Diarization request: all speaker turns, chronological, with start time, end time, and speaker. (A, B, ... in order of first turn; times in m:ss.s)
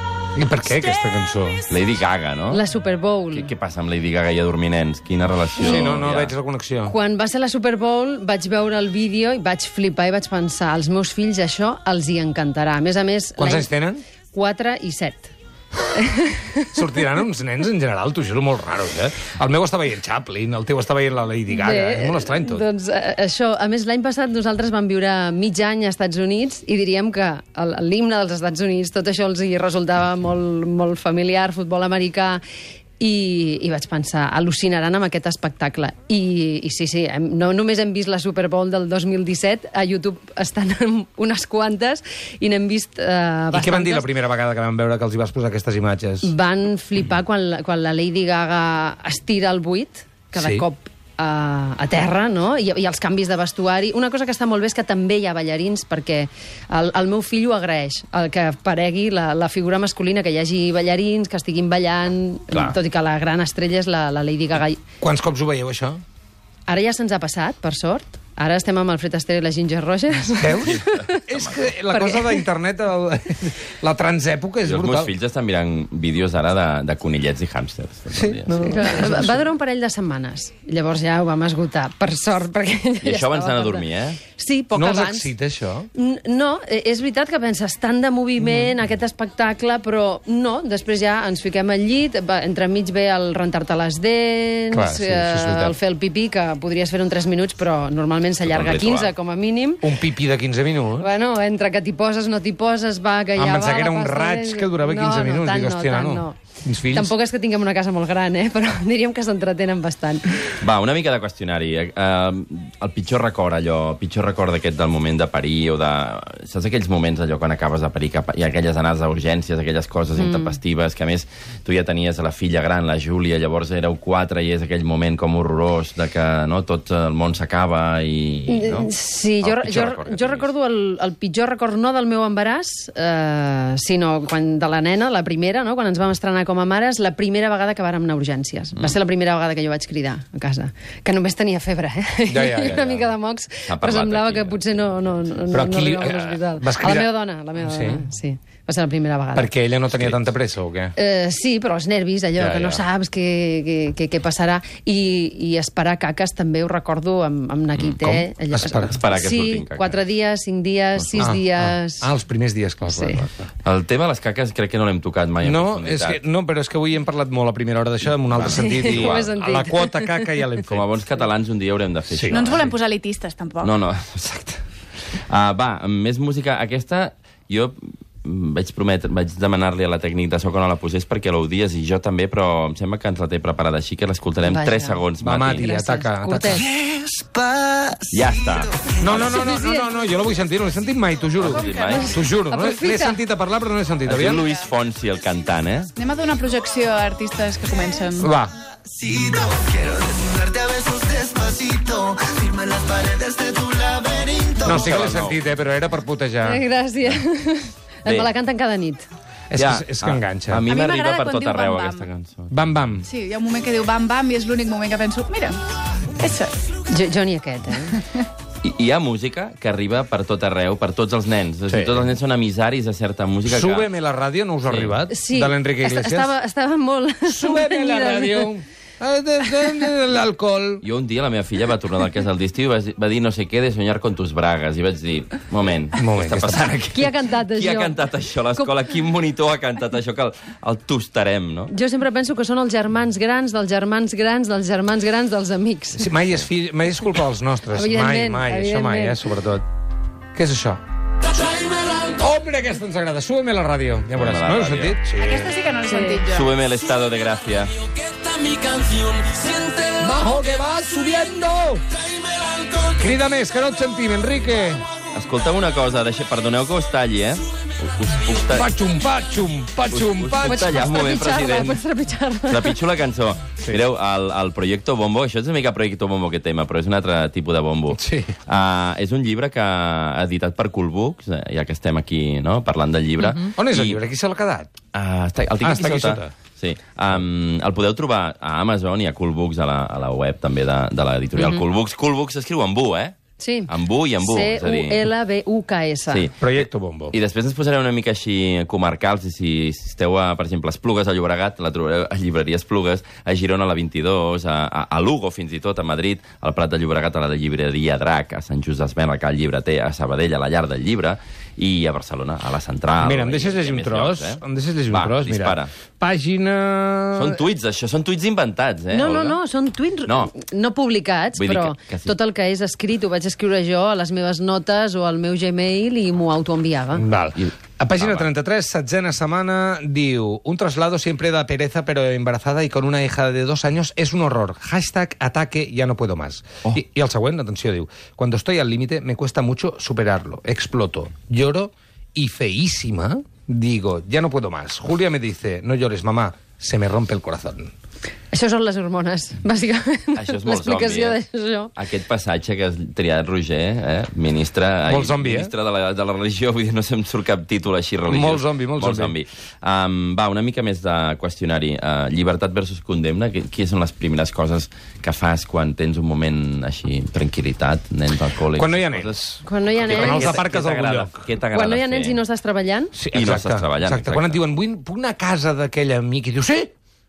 0:00.4-0:01.6 A
0:01.7-0:02.6 B
0:02.5-0:03.5 C
0:03.3-0:06.3 B
0:05.6-0:06.9 A
0:06.9-0:13.7 C
0:13.4-0:14.0 A
0:14.3-0:15.3 C
0:15.9-0:16.8 C
0:16.7-0:22.6 A
0:21.5-0:32.4 C
0:33.0-0:44.1 C
0:43.5-0:46.3 A
0:46.2-1:04.8 C
0:50.3-0:50.7 A
1:02.5-1:02.8 B
1:05.0-1:06.0 A
1:06.7-1:11.2 C
1:10.3-1:15.1 A
1:10.6-1:11.7 B
1:11.9-1:12.4 C
1:14.6-1:19.1 B
1:18.1-1:19.4 A
1:18.5-1:25.3 C
1:23.0-1:24.2 B
1:24.7-1:25.9 A
1:25.9-1:39.9 C
1:28.4-1:28.7 A
1:34.7-1:35.8 A
1:38.4-1:39.1 B
1:39.8-1:41.1 A
1:41.0-1:46.4 C
1:43.4-1:47.1 A
1:46.9-1:50.5 C
1:50.6-2:08.9 B
2:00.2-2:00.6 C
2:08.5-2:29.5 C
2:09.4-2:10.5 B
2:22.3-2:23.1 A
2:23.7-2:25.5 B
2:25.5-2:28.0 A
2:29.4-2:30.9 A
2:31.0-2:42.1 C
2:32.4-2:32.8 A
2:38.0-2:39.0 A
2:38.9-2:40.0 B
2:41.0-2:41.2 B
2:41.2-2:43.4 A
2:42.9-2:43.2 C
2:43.6-2:46.2 B
2:45.4-2:50.9 A
2:48.3-2:49.3 B
2:48.5-2:50.2 C
2:50.7-2:52.7 B
2:52.1-2:52.6 A
2:52.3-2:53.7 D
2:53.6-2:54.6 B
2:55.3-3:05.7 B
3:04.4-3:06.7 C
3:05.2-3:06.7 A
3:07.0-3:08.0 E
3:08.1-3:09.4 B
3:09.0-3:14.4 A
3:09.1-3:09.9 C
3:11.4-3:12.2 B
3:11.5-3:12.2 D
3:12.3-3:13.2 C
3:14.1-3:15.9 B
3:16.0-3:18.3 D
3:18.2-3:18.5 A
3:19.0-3:24.6 E
3:20.3-3:24.3 D
3:24.6-3:25.4 B
3:24.6-3:26.6 A
3:26.4-3:29.1 C
3:29.5-3:30.6 A
3:29.5-3:32.8 B
3:30.6-3:32.1 D
3:32.5-3:33.1 A
3:33.0-3:35.6 D
3:36.2-3:36.6 D
3:36.9-3:38.0 C
3:38.6-3:43.9 B
3:41.7-3:42.1 A
3:43.5-3:46.3 A
3:44.6-3:44.9 B
3:45.1-3:48.5 C
3:47.3-3:50.8 A
3:50.8-4:01.7 B
3:56.0-3:56.7 A
3:56.9-3:58.0 C
4:01.7-4:06.1 C
4:06.0-4:09.6 A
4:07.7-4:09.2 C
4:10.4-4:10.8 A
4:11.8-4:15.5 A
4:14.1-4:15.0 B
4:15.2-4:16.5 D
4:15.9-4:16.2 C
4:16.3-4:17.7 B
4:18.6-4:19.2 B
4:19.8-4:21.8 A
4:22.8-4:24.9 A
4:25.1-4:28.7 B
4:28.5-4:30.9 A
4:29.9-4:31.8 B
4:30.5-4:32.8 C
4:32.5-4:44.0 B
4:37.9-4:38.4 A
4:43.6-4:44.7 A
4:44.9-4:53.2 B
4:45.6-4:46.3 A
4:51.4-4:51.6 C
4:53.4-4:56.3 C
4:53.7-4:55.1 B
4:56.1-5:15.7 B
4:56.4-4:57.2 A
5:13.0-5:17.4 A
5:17.2-5:19.4 B
5:18.9-5:27.0 C
5:20.0-5:20.3 B
5:21.4-5:22.1 B
5:27.0-5:47.7 A
5:27.4-5:28.3 B
5:48.3-5:51.7 C
5:50.2-5:51.2 B
5:51.8-6:09.2 B
5:54.9-5:55.5 A
5:58.1-5:59.1 A
6:08.6-6:11.3 A
6:09.4-6:10.4 C
6:09.8-6:12.2 B
6:11.5-6:12.9 C
6:13.0-6:16.7 A
6:13.1-6:14.4 B